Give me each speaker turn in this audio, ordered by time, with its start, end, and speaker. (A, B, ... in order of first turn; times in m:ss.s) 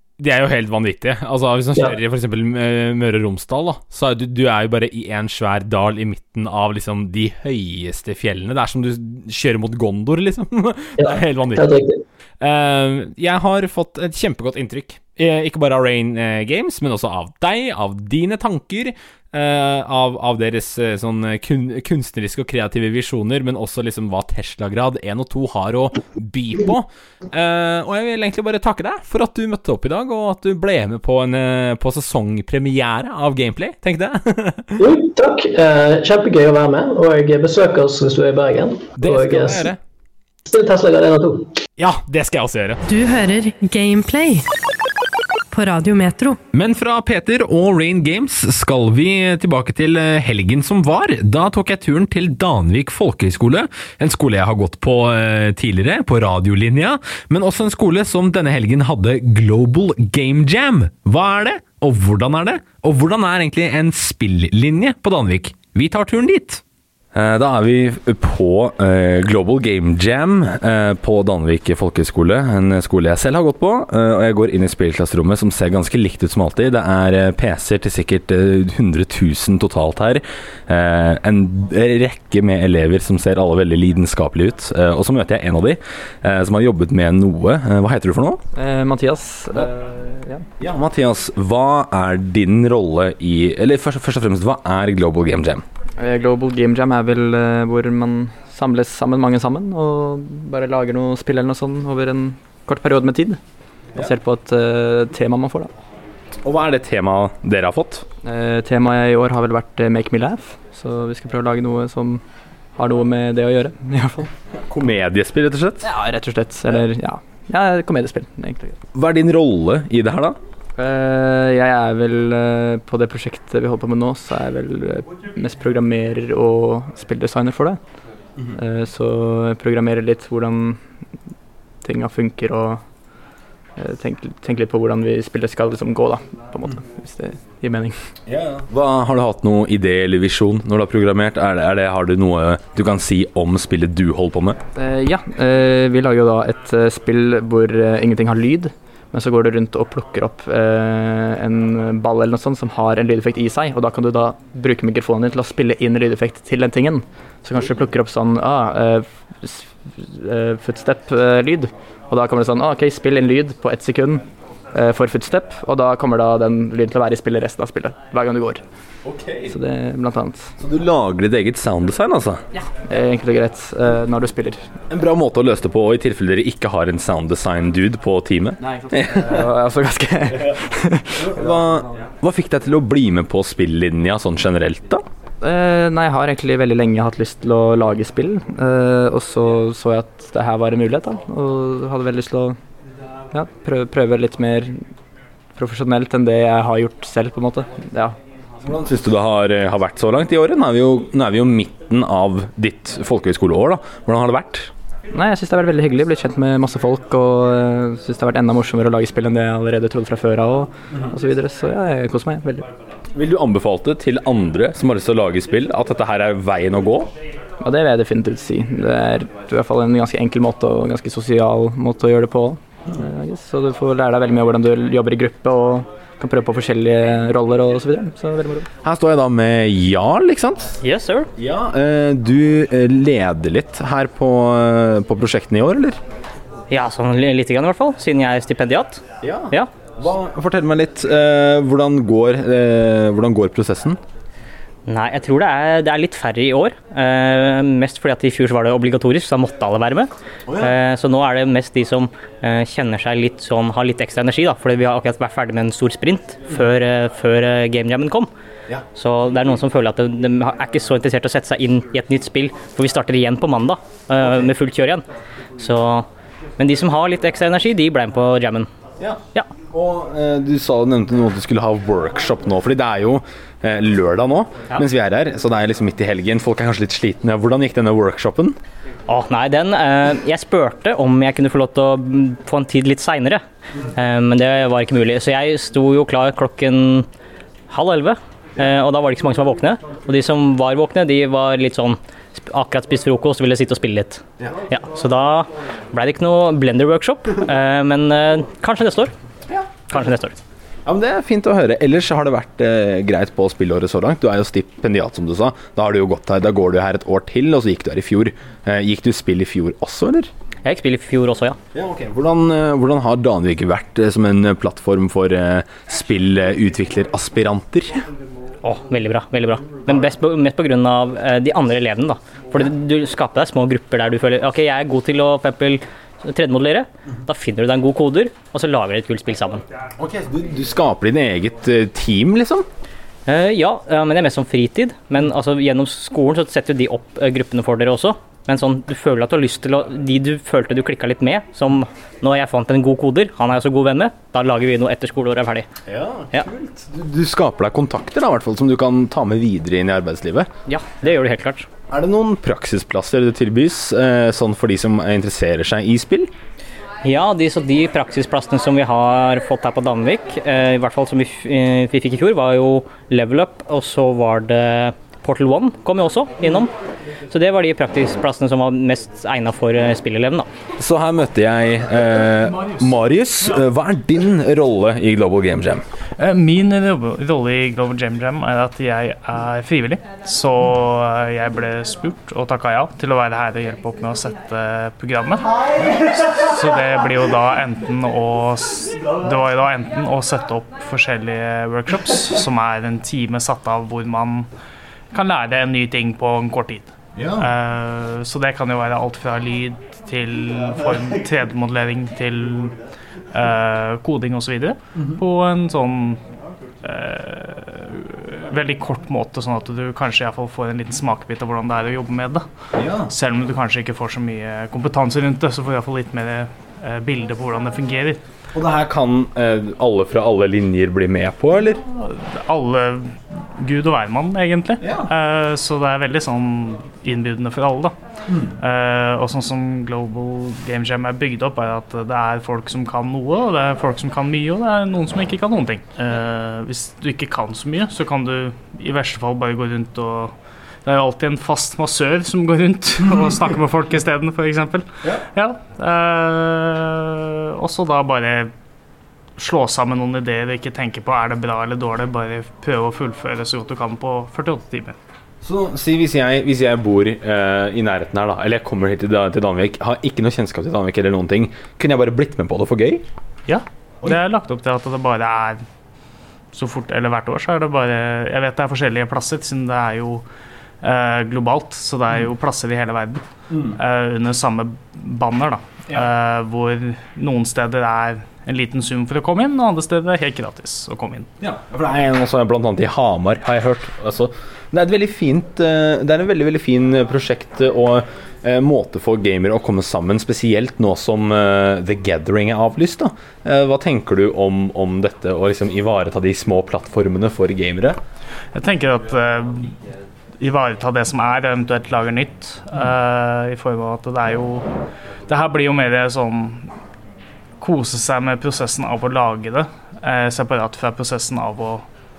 0:00.2-0:11.6 A
0:11.0-0:12.0 B
0:12.4-0:34.8 A
0:34.8-0:39.7 B
0:39.0-0:39.8 A
0:40.5-0:41.6 B
0:41.8-0:42.8 A
0:42.9-0:44.4 C
0:45.5-0:46.4 C
0:46.5-1:06.6 A
1:07.1-1:28.4 A
1:28.5-1:30.4 D
1:30.6-1:35.6 A
1:36.0-1:43.4 D
1:43.9-1:45.7 D
1:46.4-1:48.0 A
1:48.2-1:52.2 D
1:52.8-1:54.3 D
1:54.6-1:55.9 A
1:55.8-1:58.7 D
1:58.9-2:00.4 A
2:00.8-2:07.8 D
2:08.5-2:10.8 D
2:11.8-2:12.8 D
2:13.8-2:18.0 D
2:18.2-2:24.6 A
2:24.8-2:44.2 D
2:44.7-2:48.6 D
2:49.0-2:49.6 A
2:49.5-2:50.5 D
2:50.6-2:52.4 A
2:52.8-2:54.6 D
2:54.9-2:59.5 A
2:58.6-3:01.4 D
3:01.2-3:05.0 A
3:05.4-3:12.6 D
3:13.3-3:14.8 D
3:15.5-3:18.2 D
3:18.6-3:24.7 A
3:25.1-3:32.7 D
3:33.1-3:37.1 A
3:37.6-3:48.7 D
3:48.8-3:50.8 A
3:50.8-3:51.3 E
3:51.3-3:56.0 A
3:56.7-3:59.7 E
3:59.2-4:04.0 A
4:04.8-4:18.3 E
4:10.5-4:10.7 A
4:18.9-4:25.0 E
4:24.2-4:24.5 A
4:25.6-4:28.7 E
4:29.0-4:38.6 A
4:39.1-4:47.1 E
4:47.7-4:59.1 E
4:54.4-4:54.7 A
4:59.5-5:00.0 A
4:59.9-5:00.4 E
5:00.8-5:10.3 A
5:10.6-5:11.6 E
5:11.7-5:18.0 A
5:18.6-5:29.6 E
5:29.9-5:32.6 A
5:33.2-5:45.7 E
5:45.8-5:50.5 A
5:50.6-5:51.7 E
5:51.9-5:56.3 A
5:57.0-6:06.7 E
6:07.3-6:10.5 E
6:10.8-6:15.8 A
6:16.2-6:34.5 F
6:25.7-6:26.1 A
6:35.1-6:42.8 F
6:37.2-6:37.5 A
6:43.3-6:46.2 F
6:44.9-6:45.2 A
6:46.8-6:52.5 F
6:52.7-6:53.1 A
6:53.1-6:58.2 F
6:58.5-7:01.8 A
7:01.8-7:08.0 F
7:04.8-7:05.1 A
7:08.3-7:08.5 A
7:08.6-7:28.5 F
7:29.4-7:35.0 F
7:35.4-7:43.0 A
7:43.5-7:45.6 F
7:46.5-7:50.2 F
7:50.8-8:01.3 F
7:53.5-7:53.8 A
8:01.4-8:18.0 A
8:18.5-8:19.8 F
8:20.4-8:24.7 F
8:25.3-8:26.7 F
8:27.6-8:31.9 F